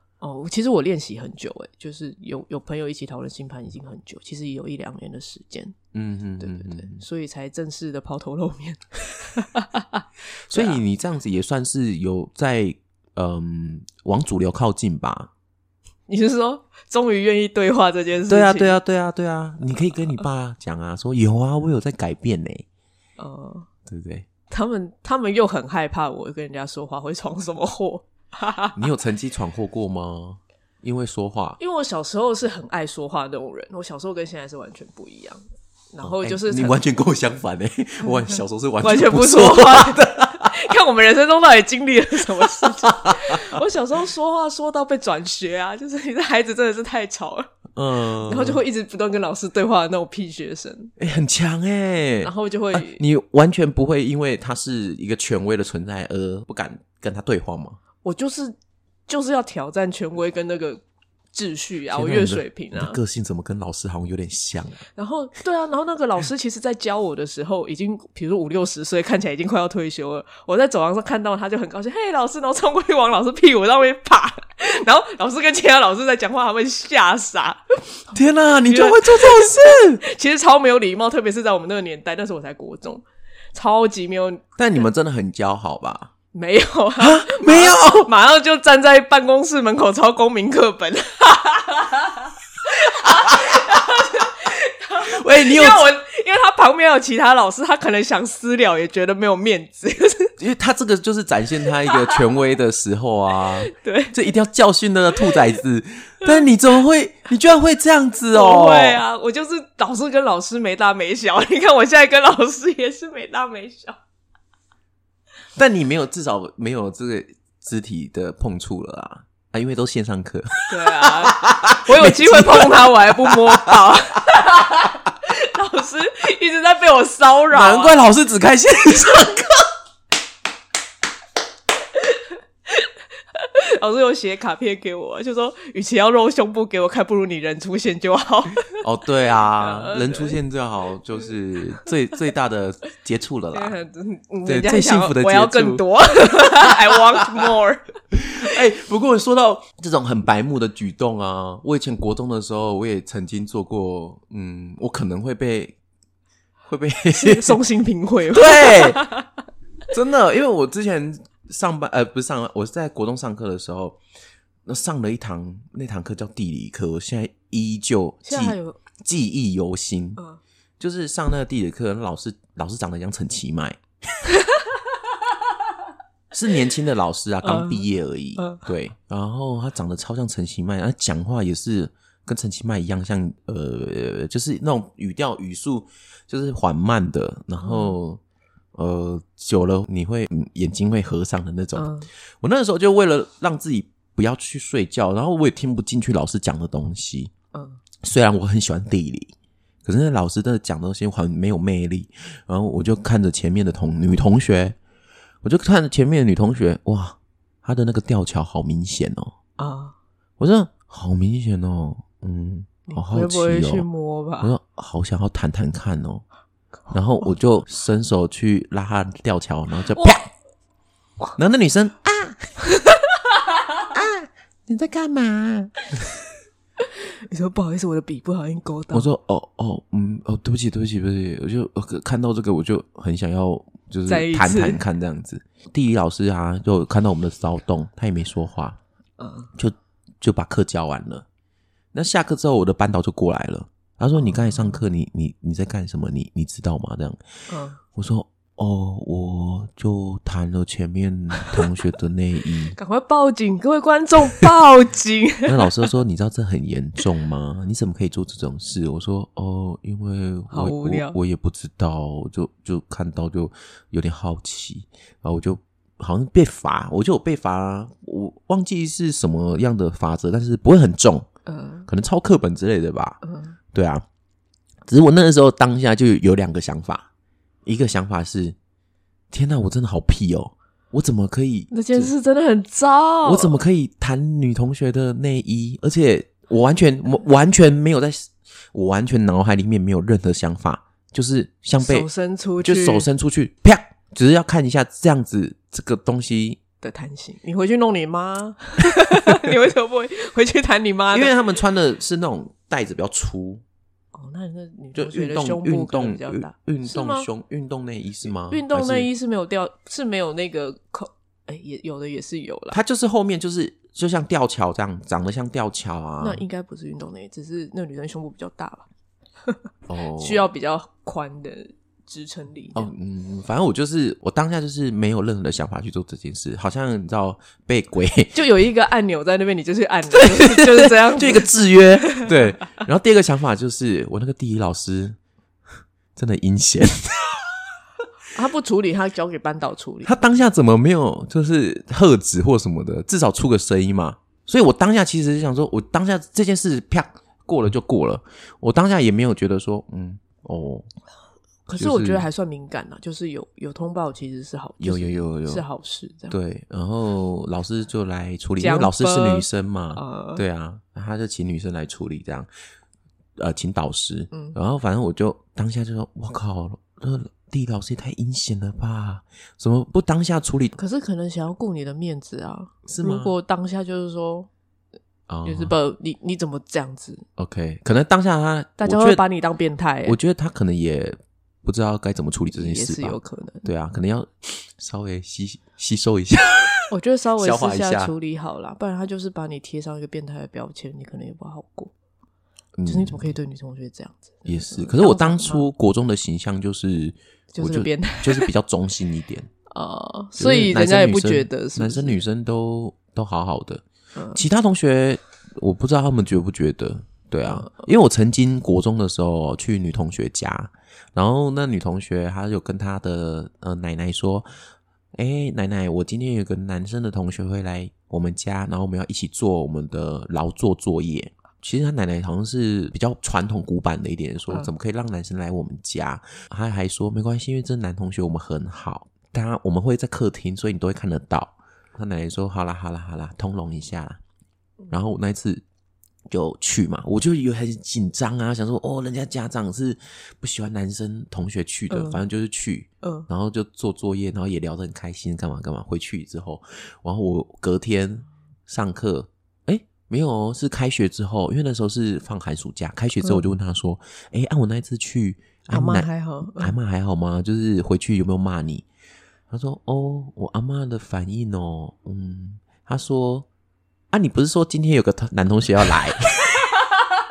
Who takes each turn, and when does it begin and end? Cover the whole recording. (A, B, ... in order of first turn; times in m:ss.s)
0:00.2-0:05.8 A
0:05.9-0:07.0 B
0:06.4-0:10.8 A
0:10.5-0:15.3 B
0:16.1-0:18.8 A
0:18.3-0:22.7 B
0:23.2-0:23.7 A
0:23.9-0:24.3 B
0:24.5-0:28.8 A
0:28.8-0:31.6 B
0:31.6-0:35.4 A
0:35.9-0:36.8 A
0:36.0-0:40.7 B
0:38.8-0:47.5 A
0:42.4-0:43.6 B
0:47.8-0:48.6 B
0:48.2-0:51.0 A
0:51.0-0:57.8 B
0:52.2-0:53.0 A
0:58.0-0:58.6 A
0:59.1-1:00.8 A
1:01.3-1:03.0 A
1:01.9-1:04.8 B
1:05.0-1:18.1 A
1:18.1-1:20.0 B
1:18.7-1:24.5 A
1:24.6-1:26.1 B
1:26.3-1:40.3 A
1:27.0-1:28.1 B
1:33.0-1:33.8 B
1:35.0-1:35.9 B
1:40.4-1:49.0 B
1:41.9-1:42.2 A
1:43.6-1:44.3 A
1:48.3-1:54.0 A
1:55.6-2:03.8 B
2:00.7-2:08.0 A
2:07.5-2:09.6 B
2:12.0-2:18.7 A
2:18.8-2:23.8 B
2:19.5-2:20.4 A
2:23.5-2:27.9 A
2:24.4-2:25.8 B
2:26.4-2:27.4 B
2:28.1-2:35.8 B
2:36.7-2:37.6 B
2:37.2-2:39.3 A
2:38.3-2:39.0 B
2:39.9-2:44.0 B
2:44.7-2:50.2 B
2:48.2-2:48.8 A
2:50.8-2:53.8 B
2:54.3-2:54.7 A
2:56.3-3:08.2 B
2:57.4-2:58.6 A
3:07.6-3:08.0 A
3:08.8-3:11.9 B
3:11.8-3:12.1 A
3:12.4-3:17.3 B
3:17.5-3:17.8 A
3:18.0-3:19.3 B
3:19.8-3:24.8 B
3:25.4-3:29.3 B
3:29.6-3:30.0 A
3:30.4-3:33.9 B
3:32.9-3:34.6 A
3:34.4-3:36.2 B
3:36.9-3:40.3 B
3:40.0-3:40.2 A
3:41.4-3:42.5 B
3:42.7-3:43.0 A
3:43.9-3:46.1 B
3:46.8-3:49.1 A
3:48.9-3:58.8 B
3:54.1-3:54.8 A
3:59.2-3:59.5 A
3:59.6-4:01.2 B
4:01.9-4:07.2 B
4:04.2-4:04.8 A
4:07.5-4:07.8 A
4:07.9-4:12.8 B
4:12.7-4:15.8 A
4:15.5-4:31.3 B
4:20.5-4:21.2 A
4:31.5-4:31.9 A
4:31.9-4:33.2 B
4:33.2-4:33.6 A
4:33.7-4:34.0 B
4:34.9-4:37.1 B
4:37.6-4:38.6 B
4:39.3-4:42.1 B
4:41.7-4:43.6 A
4:43.2-4:52.1 B
4:51.8-4:53.1 A
4:52.6-4:56.6 B
4:56.8-5:01.3 A
5:01.1-5:03.6 B
5:04.1-5:07.3 A
5:05.0-5:09.1 B
5:08.5-5:12.8 A
5:12.7-5:16.4 B
5:16.2-5:18.9 A
5:19.9-5:20.4 B
5:20.2-5:22.9 A
5:22.8-5:28.4 B
5:28.3-5:32.3 A
5:30.1-5:35.2 B
5:36.2-5:37.5 B
5:38.3-5:40.2 A
5:40.0-5:50.9 B
5:51.7-5:56.4 A
5:51.8-5:52.3 B
5:54.8-5:55.6 B
5:56.3-6:02.5 B
5:58.6-6:00.4 A
6:03.4-6:10.8 B
6:04.3-6:04.6 A
6:10.8-6:14.5 A
6:12.9-6:13.3 B
6:15.3-6:15.7 B
6:15.4-6:17.2 A
6:17.4-6:19.2 B
6:18.8-6:20.2 A
6:20.1-6:28.1 B
6:22.5-6:23.7 A
6:26.9-6:31.9 A
6:32.8-6:33.3 B
6:32.9-6:35.7 A
6:34.5-6:39.5 B
6:37.5-6:38.5 A
6:39.7-6:42.2 A
6:40.4-6:43.8 B
6:44.2-6:44.4 A
6:44.4-6:54.5 B
6:47.5-6:47.8 A
6:55.2-7:14.2 B
7:14.9-7:15.6 B
7:16.3-7:38.9 B
7:21.9-7:22.2 A
7:23.0-7:23.3 A
7:35.7-7:36.8 A
7:39.5-7:43.5 B
7:44.1-7:46.6 B
7:46.6-7:47.0 A